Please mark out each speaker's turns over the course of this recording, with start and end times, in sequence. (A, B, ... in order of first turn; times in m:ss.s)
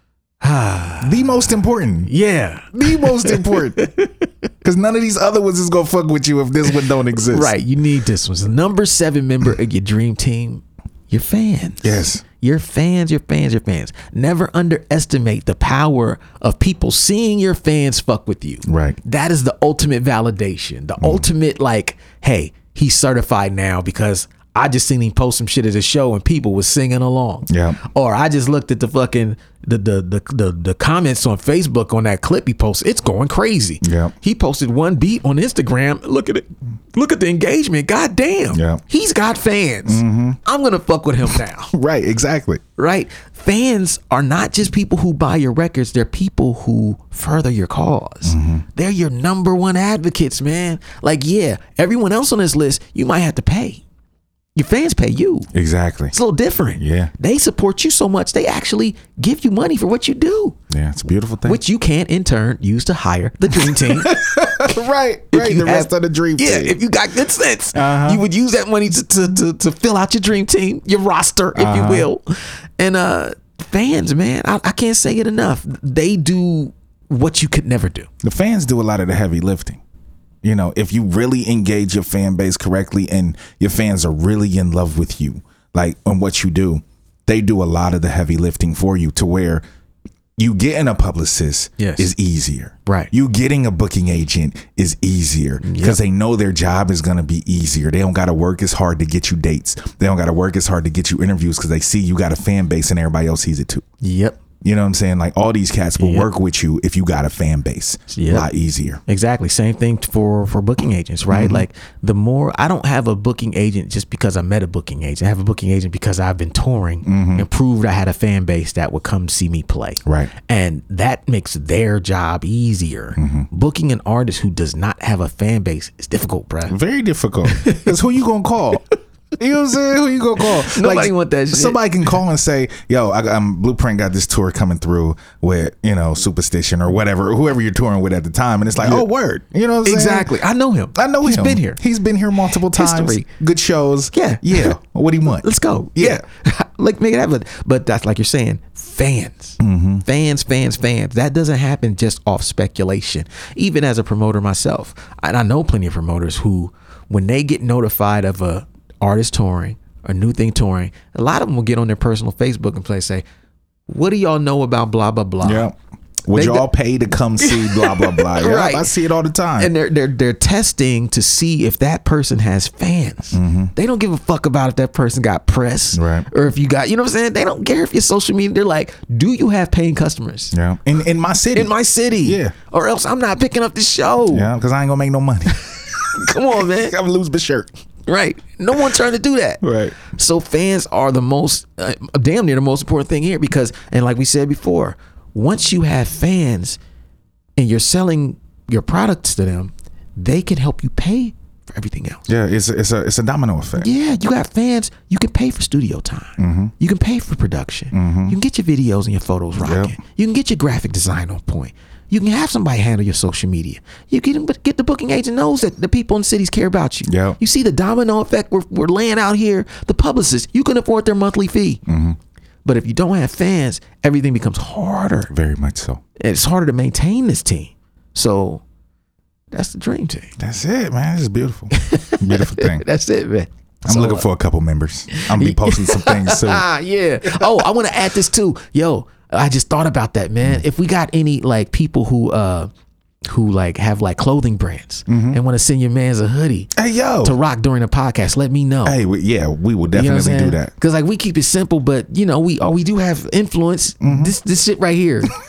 0:00.4-0:01.3 A
0:01.0-0:02.1 B
0:02.1-0:04.1 A
0:02.8-0:03.9 B
0:04.6-0:07.5 B
0:07.2-0:41.7 A
0:11.8-0:12.2 B
0:18.6-0:19.0 B
0:21.0-0:21.3 B
0:27.5-0:27.8 B
0:33.8-0:34.1 B
0:38.5-0:38.8 B
0:39.8-0:40.4 B
0:41.7-0:42.6 B
0:42.8-0:53.8 A
0:48.2-0:48.6 B
0:54.6-0:55.5 A
0:55.5-0:56.1 B
0:56.1-1:00.6 A
0:56.8-0:57.1 B
1:00.7-1:01.6 B
1:01.4-1:04.2 A
1:03.5-1:06.8 B
1:05.3-1:12.2 A
1:07.7-1:08.2 B
1:11.5-1:12.1 B
1:12.8-1:18.1 A
1:18.2-1:19.8 B
1:20.4-1:29.6 B
1:30.4-1:43.8 B
1:31.8-1:32.1 A
1:35.6-1:36.0 A
1:44.0-1:44.4 A
1:44.6-1:49.0 B
1:46.0-1:46.3 A
1:48.1-1:48.5 A
1:49.1-2:06.8 A
1:51.3-1:51.6 B
1:57.0-1:57.5 B
2:00.0-2:00.3 B
2:03.2-2:03.5 B
2:06.7-2:08.8 B
2:07.4-2:08.0 A
2:09.4-2:20.4 B
2:10.4-2:11.8 A
2:18.8-2:19.0 A
2:19.8-2:21.8 A
2:20.9-2:26.2 B
2:22.7-2:23.2 A
2:24.1-2:24.7 A
2:25.3-2:43.2 A
2:29.6-2:30.0 B
2:43.9-2:45.7 A
2:45.4-2:49.7 B
2:46.3-2:46.7 A
2:47.4-2:48.9 A
2:49.6-3:00.5 A
2:53.3-2:53.7 B
2:55.9-2:56.3 B
3:00.5-3:02.5 B
3:01.5-3:04.5 A
3:04.3-3:05.6 B
3:05.5-3:07.0 A
3:06.6-3:07.7 B
3:08.1-3:16.8 A
3:09.6-3:10.0 B
3:17.6-3:22.2 A
3:22.3-3:23.9 B
3:23.8-3:41.8 A
3:26.4-3:26.7 B
3:27.9-3:28.4 B
3:29.6-3:30.0 B
3:37.0-3:37.4 B
3:41.9-3:42.2 B
3:42.6-3:45.3 A
3:45.3-3:46.0 B
3:46.2-3:48.6 A
3:49.5-3:50.3 A
3:50.4-3:52.8 B
3:51.7-3:54.2 A
3:53.8-3:56.6 B
3:55.1-4:02.7 A
3:57.2-3:57.6 B
4:03.2-4:06.7 A
4:05.1-4:05.4 B
4:06.8-4:07.4 B
4:07.2-4:09.0 A
4:08.8-4:10.7 B
4:09.9-4:15.3 A
4:14.0-4:14.4 B